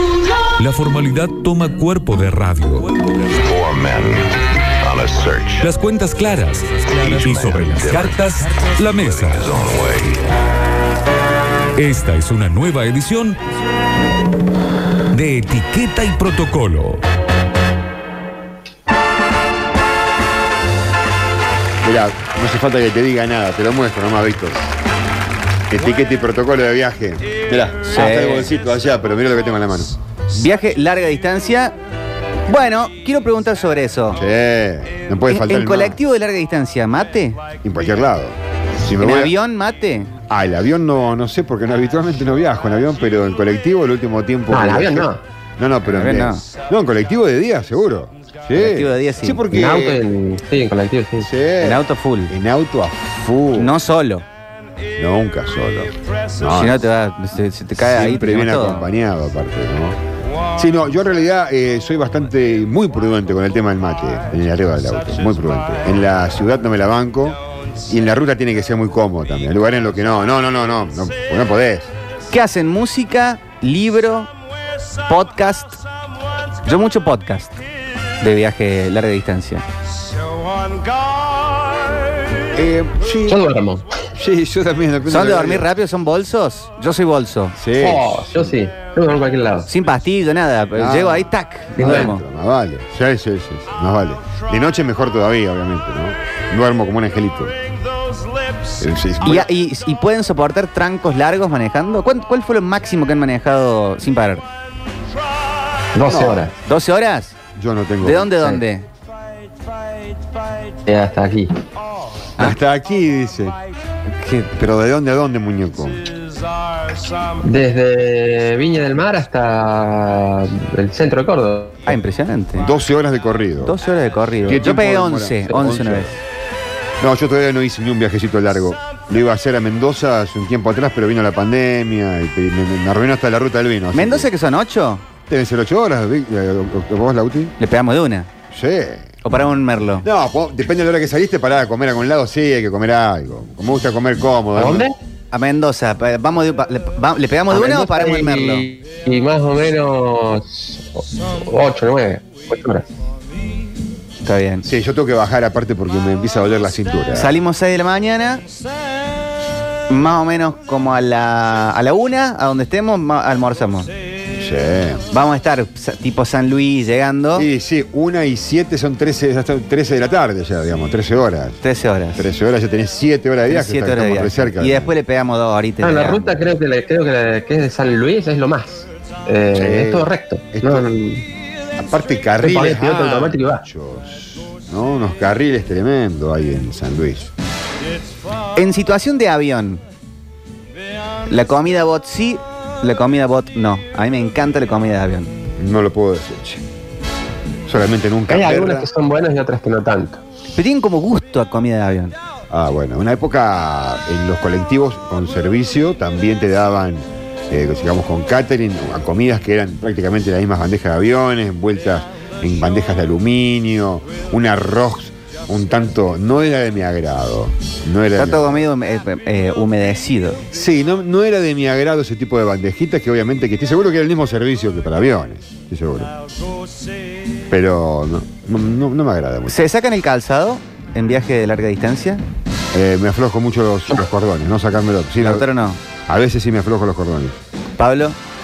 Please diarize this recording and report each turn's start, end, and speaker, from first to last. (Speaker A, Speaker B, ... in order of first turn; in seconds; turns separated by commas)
Speaker A: 0.6-2.9, Speaker B: 3.2-5.7, Speaker A: 5.6-9.6, Speaker B: 6.8-8.3, Speaker B: 8.9-10.2, Speaker A: 11.8-13.4, Speaker A: 15.1-17.0, Speaker C: 21.8-24.7, Speaker C: 25.7-30.0, Speaker D: 27.9-28.5, Speaker D: 30.3-31.7, Speaker D: 32.5-34.2, Speaker C: 34.1-36.0, Speaker D: 35.3-37.4, Speaker C: 37.6-39.3, Speaker D: 39.0-40.1, Speaker C: 40.3-50.0, Speaker E: 44.5-45.2, Speaker D: 45.9-46.4, Speaker D: 48.5-49.4, Speaker E: 49.5-51.3, Speaker C: 51.2-53.8, Speaker D: 51.6-52.3, Speaker D: 53.6-54.2, Speaker C: 55.0-56.8, Speaker D: 56.5-58.9, Speaker C: 57.8-60.0, Speaker C: 60.6-71.9, Speaker D: 72.3-74.3, Speaker D: 75.1-75.8, Speaker D: 76.6-77.6, Speaker D: 78.2-79.6, Speaker C: 82.5-83.5, Speaker E: 83.3-83.9, Speaker C: 84.2-85.7, Speaker D: 85.1-87.6, Speaker C: 87.5-88.5, Speaker E: 87.8-89.7, Speaker D: 89.7-92.2, Speaker C: 90.8-97.5, Speaker E: 91.8-92.1, Speaker C: 98.8-99.5, Speaker D: 99.2-104.4, Speaker E: 105.9-106.5, Speaker C: 106.0-106.5, Speaker D: 106.6-107.3, Speaker C: 107.5-108.6, Speaker D: 108.0-108.8, Speaker E: 110.8-111.5, Speaker C: 112.4-113.5, Speaker D: 114.2-114.5, Speaker C: 114.5-116.0, Speaker E: 117.4-121.8, Speaker D: 121.8-122.7, Speaker C: 122.6-123.8, Speaker D: 123.6-126.1, Speaker C: 124.4-126.2, Speaker C: 127.0-134.3, Speaker D: 133.9-135.1, Speaker C: 135.3-137.5, Speaker D: 137.6-138.3, Speaker C: 138.5-139.2, Speaker D: 139.2-140.1, Speaker C: 140.0-144.9, Speaker E: 144.5-144.9, Speaker D: 145.3-148.7, Speaker E: 147.5-152.9, Speaker D: 154.2-154.6, Speaker C: 154.6-157.3, Speaker D: 157.2-158.4, Speaker D: 159.9-163.9, Speaker C: 164.3-165.0, Speaker D: 165.1-167.4, Speaker C: 167.3-171.6, Speaker D: 171.6-172.2, Speaker C: 172.2-174.9, Speaker D: 173.5-176.4, Speaker E: 175.8-181.2, Speaker C: 179.5-180.9, Speaker C: 181.8-187.3, Speaker E: 182.4-183.6, Speaker D: 188.6-189.8, Speaker D: 191.3-195.3, Speaker C: 195.6-196.6, Speaker C: 197.7-198.9, Speaker E: 198.3-200.2, Speaker D: 200.6-202.1, Speaker C: 202.5-218.6, Speaker D: 218.2-220.4, Speaker C: 220.5-226.1, Speaker C: 227.5-229.6, Speaker D: 229.5-232.2, Speaker C: 232.7-235.4, Speaker D: 235.2-235.8, Speaker C: 236.1-237.3, Speaker D: 237.8-238.2